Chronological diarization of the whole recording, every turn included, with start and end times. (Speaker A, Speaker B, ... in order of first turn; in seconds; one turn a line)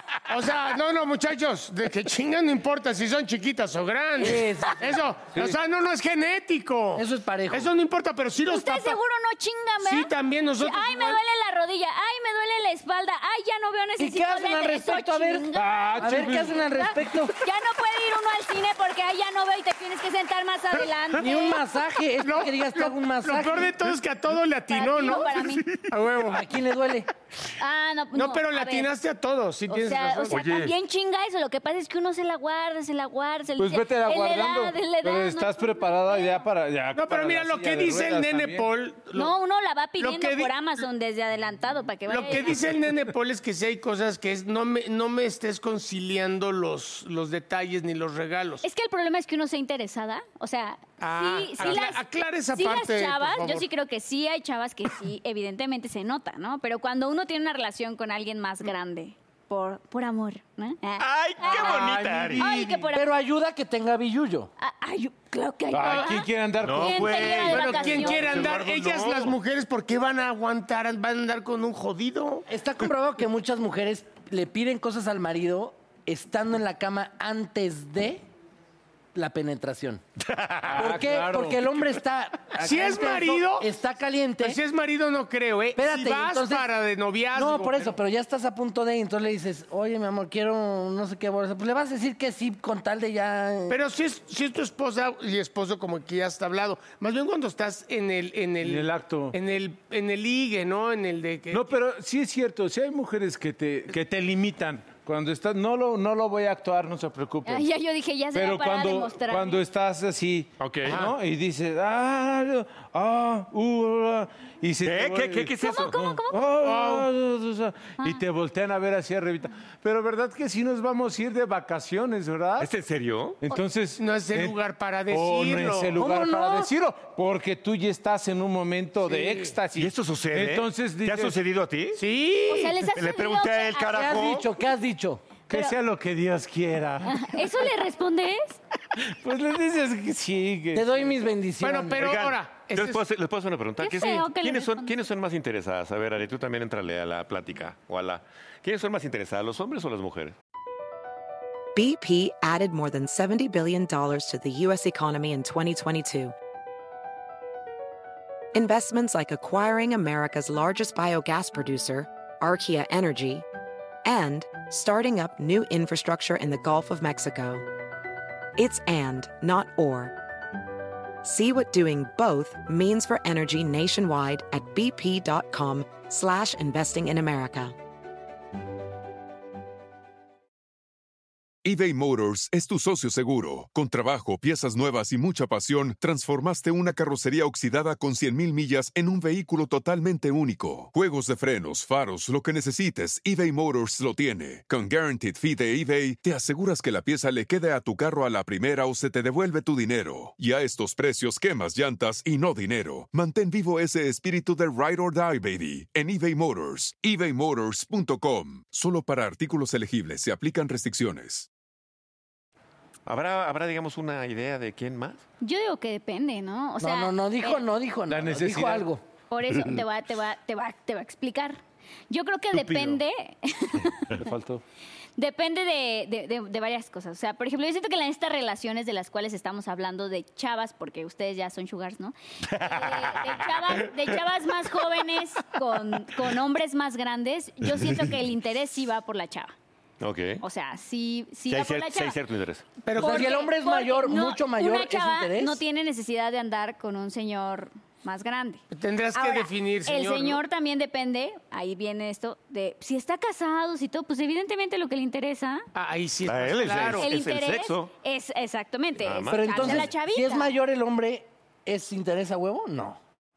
Speaker A: 0.3-9.0
Speaker B: 4.2-4.8
Speaker B: 7.0-7.7
Speaker C: 8.5-21.6
Speaker A: 9.8-11.2
Speaker B: 14.0-15.5
Speaker D: 15.5-16.6
Speaker B: 16.0-17.3
Speaker B: 21.1-23.8
Speaker A: 22.2-26.4
Speaker C: 24.7-25.7
Speaker B: 26.3-27.1
Speaker C: 27.6-28.9
Speaker A: 28.1-30.6
Speaker C: 29.7-36.5
Speaker D: 33.6-38.7
Speaker A: 36.9-39.4
Speaker C: 39.1-42.6
Speaker A: 40.0-40.5
Speaker A: 42.1-48.6
Speaker C: 48.6-63.1
Speaker A: 51.0-53.7
Speaker E: 61.0-62.5
Speaker D: 61.6-62.6
Speaker B: 62.9-64.5
Speaker C: 64.6-68.5
Speaker D: 65.7-67.7
Speaker E: 66.6-69.4
Speaker A: 67.1-72.5
Speaker D: 68.2-68.5
Speaker B: 72.5-78.2
Speaker B: 79.1-80.0
Speaker E: 80.3-80.6
Speaker D: 80.7-81.7
Speaker B: 80.7-84.6
Speaker A: 82.6-83.7
Speaker A: 84.4-88.0
Speaker B: 85.8-86.7
Speaker B: 87.3-93.8
Speaker A: 93.7-101.8
Speaker D: 98.6-99.4
Speaker D: 101.5-107.7
Speaker C: 107.4-109.6
Speaker D: 108.3-122.7
Speaker E: 110.6-111.0
Speaker A: 110.9-111.2
Speaker E: 114.8-116.0
Speaker C: 115.6-116.4
Speaker A: 116.5-117.1
Speaker E: 122.6-123.4
Speaker D: 123.4-124.6
Speaker A: 124.0-126.0
Speaker D: 125.1-131.4
Speaker B: 126.0-126.7
Speaker A: 129.0-129.6
Speaker E: 129.8-132.0
Speaker A: 132.0-132.8
Speaker C: 132.5-134.1
Speaker E: 132.9-134.5
Speaker B: 133.9-135.2
Speaker D: 135.5-137.4
Speaker C: 137.1-138.6
Speaker D: 139.0-140.9
Speaker B: 140.7-142.1
Speaker A: 141.6-143.0
Speaker E: 142.0-150.3
Speaker C: 143.8-144.9
Speaker F: 151.8-156.3
Speaker F: 158.5-163.4
Speaker F: 164.1-167.7
Speaker F: 168.6-170.2
Speaker F: 171.2-177.8
Speaker G: 181.6-211.5
Speaker E: 213.1-215.2
Speaker C: 215.4-217.6
Speaker B: 216.8-219.0
Speaker D: 218.1-218.9
Speaker C: 219.3-221.6
Speaker C: 222.1-224.3
Speaker D: 222.5-223.0
Speaker D: 224.1-224.6
Speaker C: 225.2-239.5
Speaker E: 232.5-234.0
Speaker E: 237.7-238.1
Speaker E: 240.0-240.4
Speaker C: 240.4-242.2
Speaker E: 241.5-242.7
Speaker A: 242.8-243.5
Speaker C: 242.9-255.7
Speaker B: 242.9-245.6
Speaker A: 248.7-250.4
Speaker A: 255.8-257.1
Speaker E: 256.3-257.9
Speaker C: 257.0-260.5
Speaker E: 259.0-259.9
Speaker B: 259.3-263.0